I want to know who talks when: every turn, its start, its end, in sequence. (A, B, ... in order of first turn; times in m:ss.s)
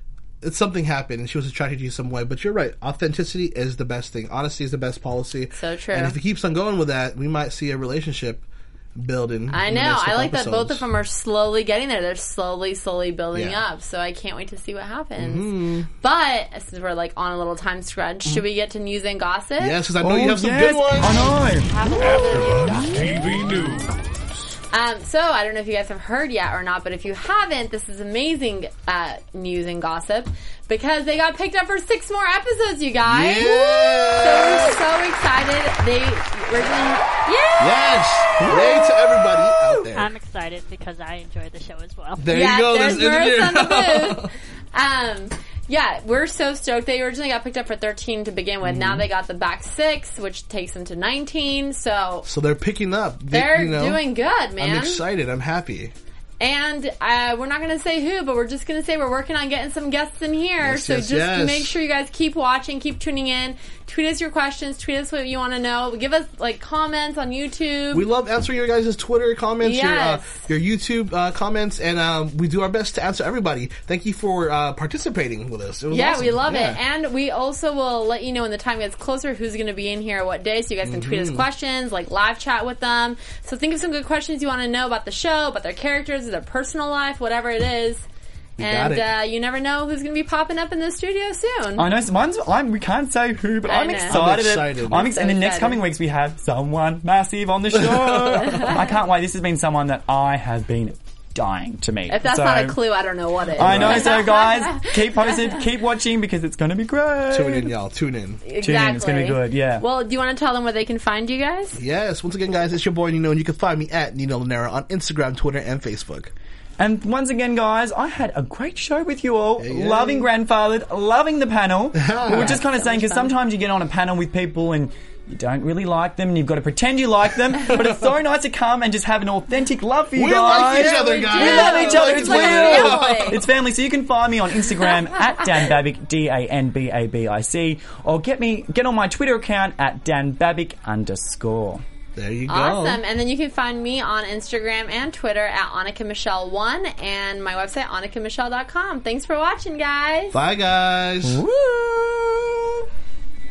0:00.4-0:10.8 A
0:05.6-0:06.2 B
0:09.5-0:19.8 B
0:13.3-0:13.6 A
0:15.2-0:15.9 A
0:19.6-0:21.4 A
0:20.0-0:23.2 C
0:21.1-0:23.6 B
0:24.7-0:38.0 B
0:33.0-0:34.8 A
0:37.6-0:40.1 A
0:39.7-0:42.4 D
0:42.2-0:44.3 A
0:42.3-0:52.3 B
0:48.6-0:49.1 A
0:52.2-0:54.1 A
0:53.3-0:55.0 B
0:54.6-0:55.9 A
0:56.4-1:08.1 B
1:00.6-1:01.7 A
1:07.9-1:16.8 A
1:09.6-1:10.4 B
1:15.9-1:28.1 B
1:20.8-1:21.5 A
1:28.6-1:29.1 A
1:28.6-1:31.9 B
1:31.8-1:42.8 C
1:33.7-1:34.2 B
1:34.1-1:35.1 A
1:34.9-1:35.8 B
1:37.7-1:38.7 A
1:38.4-1:38.8 B
1:42.1-1:45.6 B
1:43.6-1:47.7 C
1:43.6-1:44.1 A
1:47.3-1:48.4 A
1:48.4-1:51.8 B
1:48.6-1:49.8 C
1:51.8-1:56.3 A
1:56.8-2:21.8 C
1:59.6-2:00.3 A
2:02.0-2:02.6 A
2:02.3-2:03.4 B
2:10.2-2:13.4 A
2:10.4-2:13.4 B
2:22.2-2:23.0 A
2:22.5-2:30.4 B
2:30.3-2:31.4 A
2:31.2-2:32.8 C